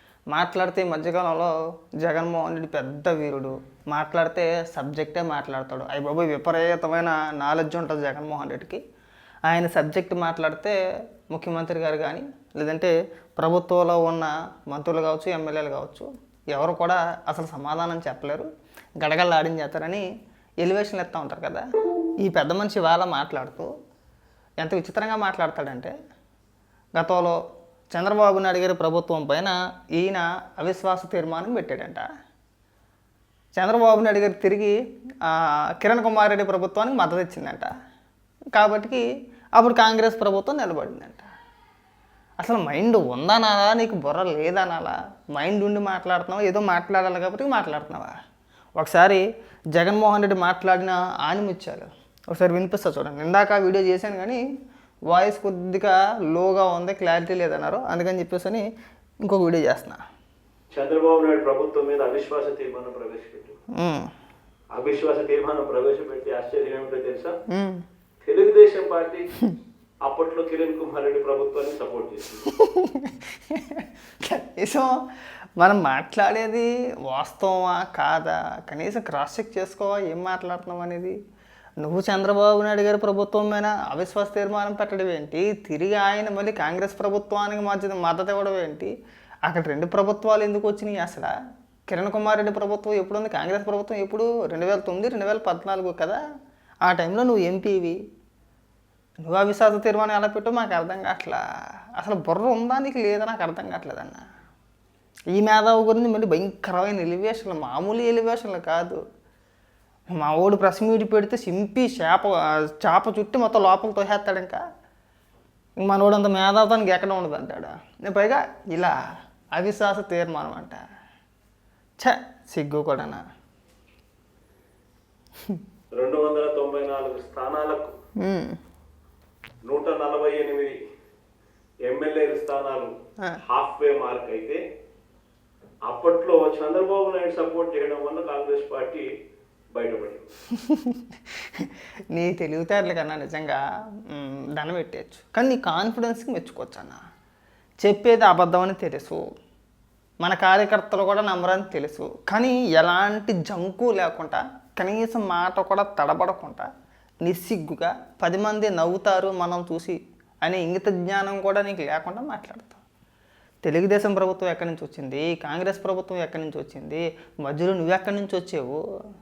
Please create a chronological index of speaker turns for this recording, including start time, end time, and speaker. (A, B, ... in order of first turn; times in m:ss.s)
0:00.3-0:08.8 A
0:09.5-0:10.8 A
0:11.3-0:18.5 A
0:19.0-0:20.0 A
0:20.6-0:21.6 A
0:22.2-0:23.7 A
0:24.6-0:25.9 A
0:27.0-0:27.4 A
0:27.9-0:32.0 A
0:33.6-0:37.7 A
0:38.5-0:39.0 A
0:39.6-0:41.3 A
0:42.4-0:48.1 A
0:48.8-0:54.4 A
0:55.1-0:58.6 A
0:59.2-1:00.0 A
1:00.7-1:03.6 B
1:03.8-1:04.1 A
1:04.7-1:07.3 B
1:07.5-1:07.8 A
1:08.2-1:09.3 B
1:10.0-1:12.4 B
1:12.5-1:14.9 A
1:15.6-1:21.1 A
1:21.8-1:28.9 A
1:29.5-1:31.3 A
1:31.9-1:36.2 A
1:36.8-1:38.0 A
1:39.2-1:41.4 A
1:42.0-1:44.2 A
1:45.3-1:49.0 A
1:50.1-1:54.6 A
1:55.8-1:59.0 A
1:59.5-2:00.8 A
2:02.0-2:03.2 A
2:05.9-2:07.9 B
2:08.2-2:08.6 A
2:09.6-2:10.8 B
2:11.8-2:14.6 B
2:15.9-2:19.1 B
2:19.7-2:20.3 B
2:20.6-2:23.6 A
2:24.1-2:27.0 A
2:27.8-2:29.2 A
2:30.2-2:36.6 A
2:37.2-2:42.8 A
2:43.6-2:48.8 A